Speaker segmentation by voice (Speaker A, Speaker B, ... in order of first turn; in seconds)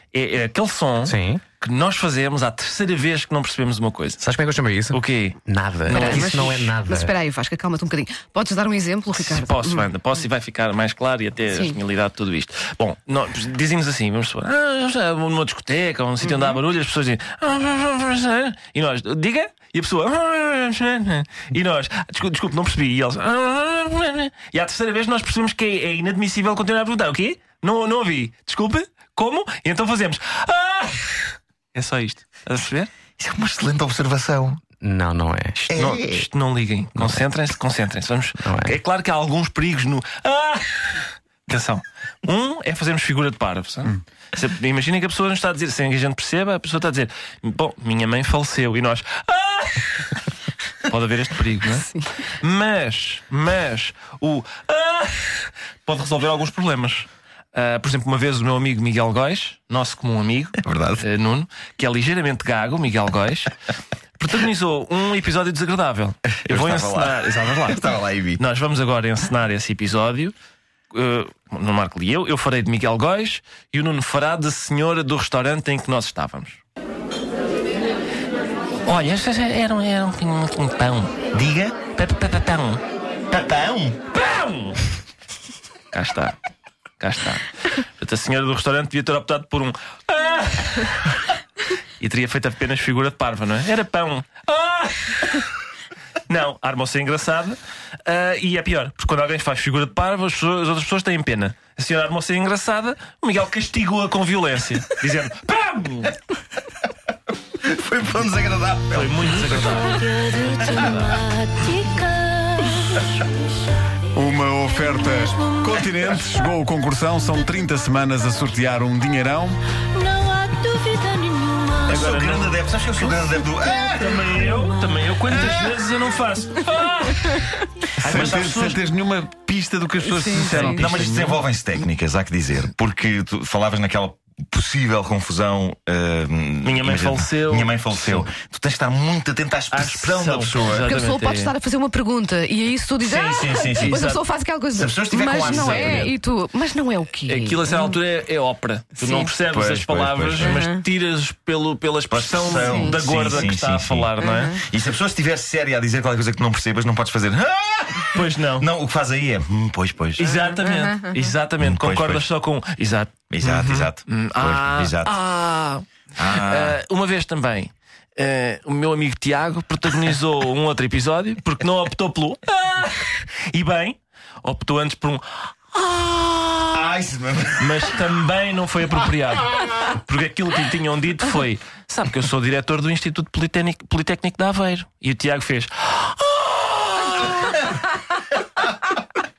Speaker A: 0.1-4.2, 4.9-6.8, 9.1-32.9, 35.7-50.2, 50.9-63.5, 64.2-67.8, 68.4-70.3, 70.9-76.6, 78.8-81.2, 82.0-82.8, 84.1-84.8, 85.9-86.3, 87.0-91.2, 92.0-95.5, 96.3-106.2, 108.9-111.2, 121.9-122.6, 124.0-128.8, 130.3-131.3, 136.6-138.3, 139.7-141.5, 143.0-144.2, 145.4-146.1, 147.2-154.6, 158.1-158.7, 160.2-176.9, 177.6-187.8
Speaker B: 1.1-1.4, 4.2-7.1, 34.8-35.7, 37.0-37.2, 38.4-38.8
Speaker C: 5.9-9.9, 11.5-11.8, 130.0-130.8, 140.8-148.0, 149.0-149.3, 150.4-150.8, 152.4-153.0
Speaker D: 33.2-34.6, 35.7-36.3, 60.6-61.0, 66.5-68.4, 81.3-81.8, 83.3-84.0, 107.5-109.9, 121.9-124.3, 130.6-140.9, 143.1-144.0, 144.7-146.1, 149.5-150.6, 152.1-160.3, 161.6-162.2, 163.3-165.2, 166.2-166.8, 176.7-177.9
Speaker E: 109.7-113.5, 114.3-116.5, 119.9-122.0, 122.9-125.7
Speaker F: 114.1-119.6, 128.0-131.4